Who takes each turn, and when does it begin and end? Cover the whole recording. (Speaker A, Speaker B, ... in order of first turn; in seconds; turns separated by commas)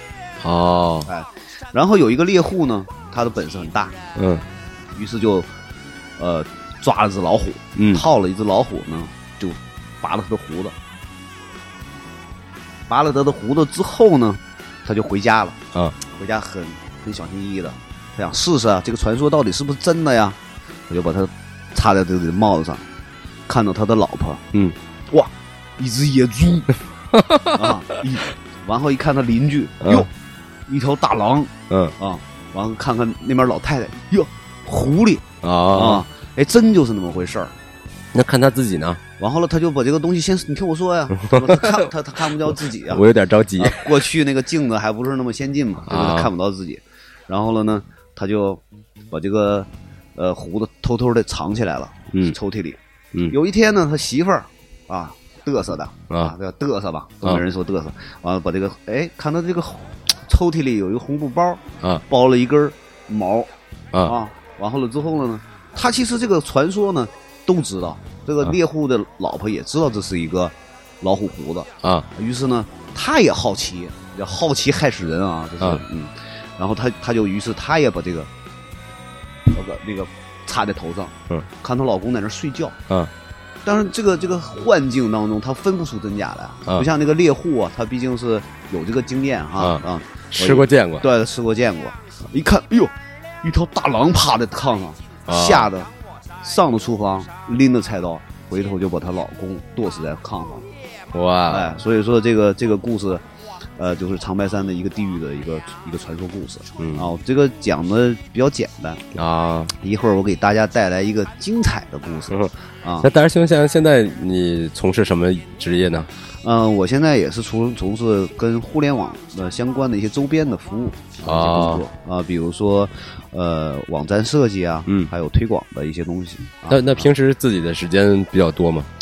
Speaker A: 0.4-1.1, Speaker B: 1.1-4.0, Speaker A: 4.2-4.4, Speaker B: 5.0-5.5, Speaker B: 6.2-10.8, Speaker A: 7.8-8.1, Speaker B: 12.9-20.4, Speaker B: 20.9-22.9, Speaker B: 23.5-24.5, Speaker B: 25.1-26.8, Speaker A: 27.2-27.7, Speaker B: 27.5-30.1, Speaker A: 29.8-30.1, Speaker B: 30.7-37.5, Speaker A: 35.4-36.0, Speaker A: 38.1-39.0, Speaker B: 39.2-43.0, Speaker A: 41.1-41.9, Speaker A: 42.9-43.9, Speaker B: 43.6-63.5, Speaker A: 45.9-46.3, Speaker B: 64.0-78.3, Speaker B: 79.5-82.8, Speaker B: 83.7-100.7, Speaker A: 90.3-91.0, Speaker A: 95.3-95.7, Speaker A: 101.1-101.8, Speaker B: 101.5-103.2, Speaker B: 103.8-109.1, Speaker A: 106.8-107.1, Speaker A: 109.2-109.7, Speaker B: 109.8-113.1, Speaker A: 112.3-116.1, Speaker B: 116.4-127.1, Speaker A: 121.2-121.8, Speaker A: 126.7-128.9